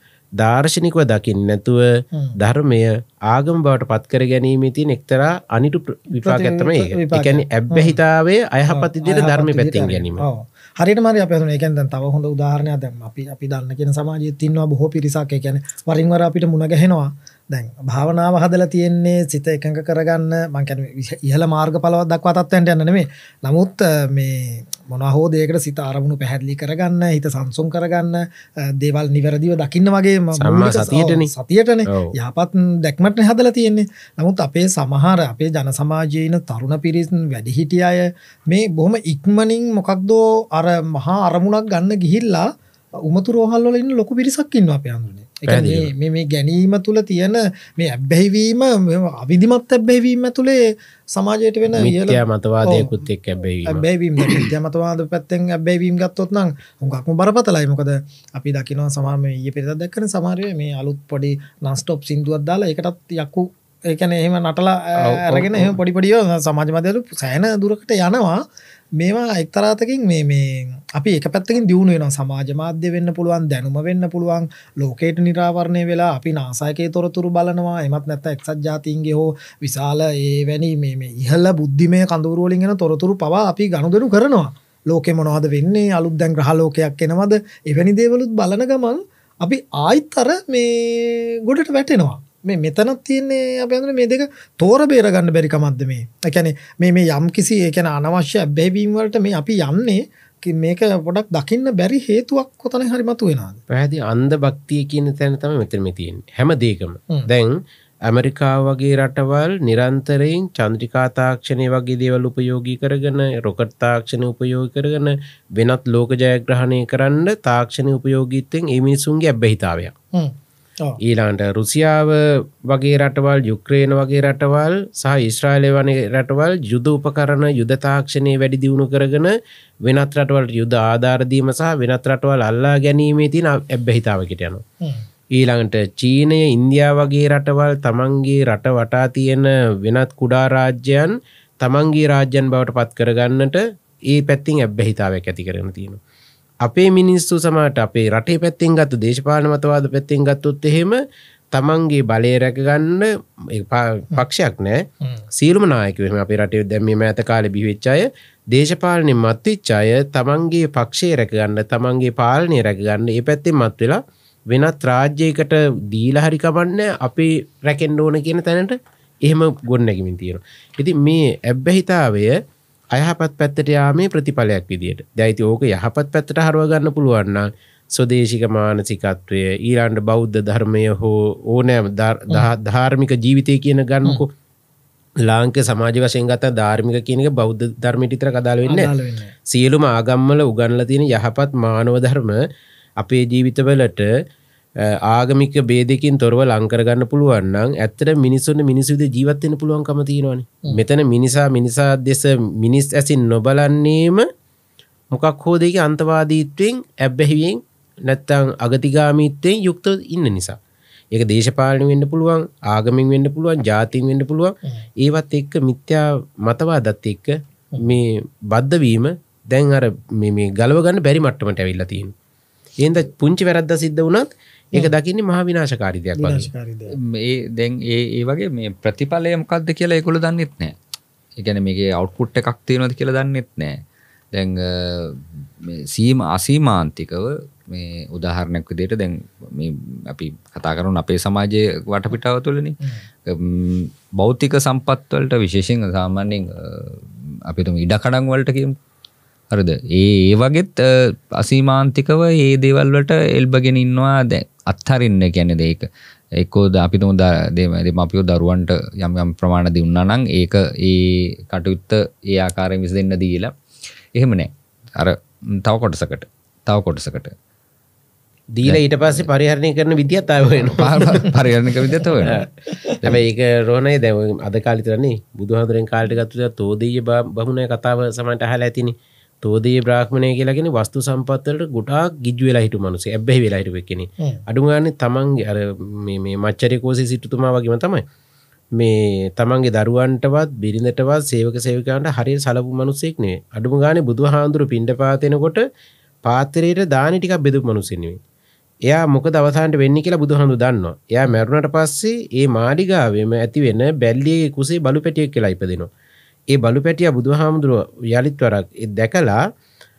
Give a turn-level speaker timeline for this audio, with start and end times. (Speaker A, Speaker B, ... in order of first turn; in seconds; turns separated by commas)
Speaker A: 0.4-10.2, Speaker B: 6.1-8.0, Speaker B: 8.7-53.0, Speaker A: 30.3-31.3, Speaker A: 31.9-32.1, Speaker A: 45.5-45.9, Speaker A: 51.7-54.4, Speaker B: 53.6-68.4, Speaker A: 65.0-65.7, Speaker B: 69.0-103.6, Speaker A: 103.7-119.9, Speaker B: 120.1-121.0, Speaker A: 121.0-134.6, Speaker A: 135.3-146.0, Speaker A: 146.6-151.0, Speaker A: 151.5-172.3, Speaker A: 172.9-184.3, Speaker A: 185.2-188.9, Speaker B: 188.7-189.3, Speaker A: 189.5-192.4, Speaker A: 193.0-194.1, Speaker A: 194.8-204.2, Speaker A: 205.1-210.6, Speaker A: 211.1-222.1, Speaker A: 222.8-226.5, Speaker B: 226.2-226.9, Speaker C: 226.9-230.8, Speaker C: 231.4-248.8, Speaker C: 249.5-263.5, Speaker C: 264.1-267.3, Speaker A: 268.5-271.2, Speaker C: 268.6-269.2, Speaker C: 270.7-272.4, Speaker B: 271.9-273.0, Speaker A: 273.0-288.0, Speaker A: 288.8-295.6, Speaker A: 296.2-298.2, Speaker A: 298.9-305.9, Speaker A: 306.5-309.4